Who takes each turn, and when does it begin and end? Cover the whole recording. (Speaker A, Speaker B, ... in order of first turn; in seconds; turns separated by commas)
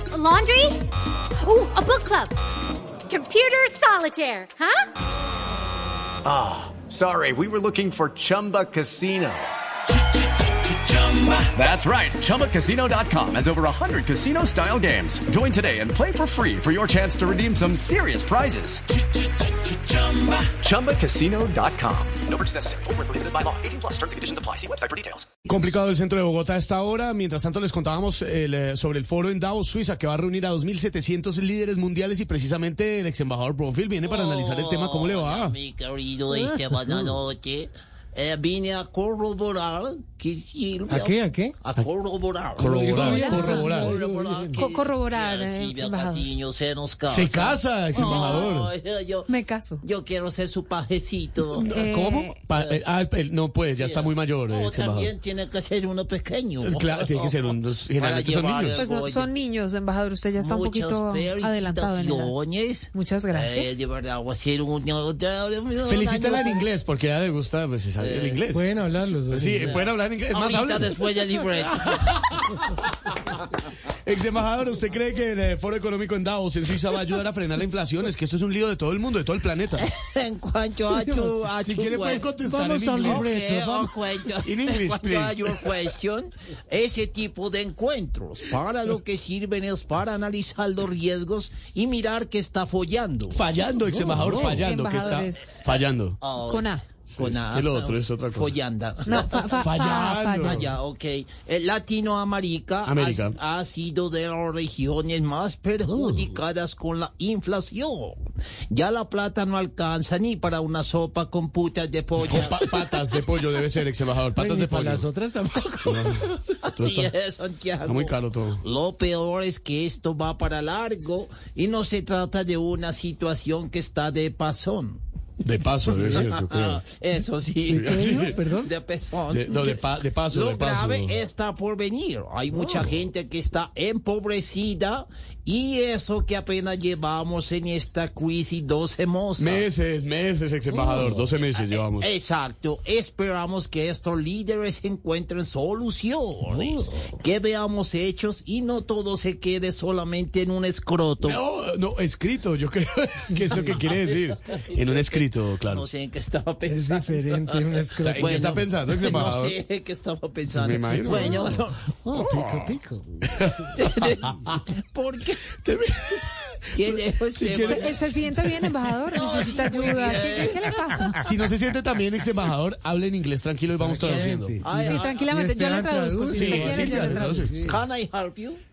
Speaker A: 0.1-0.9, Speaker A: 1.4-2.4, Speaker A: 3.1-4.9, Speaker B: 6.2-9.5, Speaker B: 11.3-18.8, Speaker B: 20.0-25.3, Speaker C: 25.4-35.5, Speaker D: 34.0-49.3, Speaker E: 36.3-37.1, Speaker E: 40.9-41.5, Speaker C: 42.5-44.0, Speaker E: 42.6-44.7, Speaker F: 43.2-43.7, Speaker F: 44.6-46.3, Speaker C: 47.1-48.7, Speaker F: 49.3-49.8, Speaker D: 49.8-51.8, Speaker C: 51.5-55.1, Speaker F: 51.7-52.4, Speaker D: 53.8-57.4, Speaker C: 56.6-58.8, Speaker D: 58.0-59.3, Speaker F: 58.8-62.3, Speaker D: 60.4-66.7, Speaker F: 62.9-63.8, Speaker C: 65.8-68.7, Speaker D: 68.0-68.4, Speaker E: 68.5-69.8, Speaker C: 69.3-70.9, Speaker D: 69.6-72.4, Speaker C: 72.0-73.3, Speaker C: 74.0-79.8, Speaker D: 79.8-82.3, Speaker E: 80.9-81.3, Speaker C: 81.6-83.9, Speaker E: 82.4-83.8, Speaker D: 83.0-93.4, Speaker C: 84.4-85.7, Speaker C: 93.3-96.3, Speaker E: 94.0-94.7, Speaker D: 94.3-94.6, Speaker F: 94.6-95.7, Speaker D: 95.8-108.2, Speaker F: 96.4-96.8, Speaker C: 97.1-98.5, Speaker F: 99.1-100.6, Speaker C: 99.6-100.7, Speaker C: 102.8-103.3, Speaker E: 106.0-106.2, Speaker D: 108.7-112.9, Speaker C: 112.2-115.1, Speaker E: 114.4-116.2, Speaker C: 115.9-117.1, Speaker D: 116.0-125.0, Speaker C: 117.9-118.6, Speaker C: 125.4-126.8, Speaker D: 126.0-139.8, Speaker C: 127.7-128.4, Speaker E: 127.9-128.7, Speaker C: 129.3-131.2, Speaker C: 139.4-142.1, Speaker D: 140.7-151.4, Speaker E: 146.5-146.8, Speaker C: 151.2-155.8, Speaker D: 153.5-161.9, Speaker E: 156.7-158.5, Speaker C: 158.0-159.5, Speaker C: 160.5-161.6, Speaker E: 162.1-163.3, Speaker C: 162.1-162.7, Speaker C: 163.3-163.7, Speaker D: 163.7-165.5, Speaker C: 165.6-166.3, Speaker D: 166.7-168.0, Speaker C: 166.9-168.7, Speaker F: 167.7-171.2, Speaker D: 169.1-171.0, Speaker C: 171.2-174.6, Speaker E: 173.8-177.8, Speaker D: 174.0-175.3, Speaker F: 174.9-177.5, Speaker C: 176.3-177.6, Speaker D: 177.5-178.6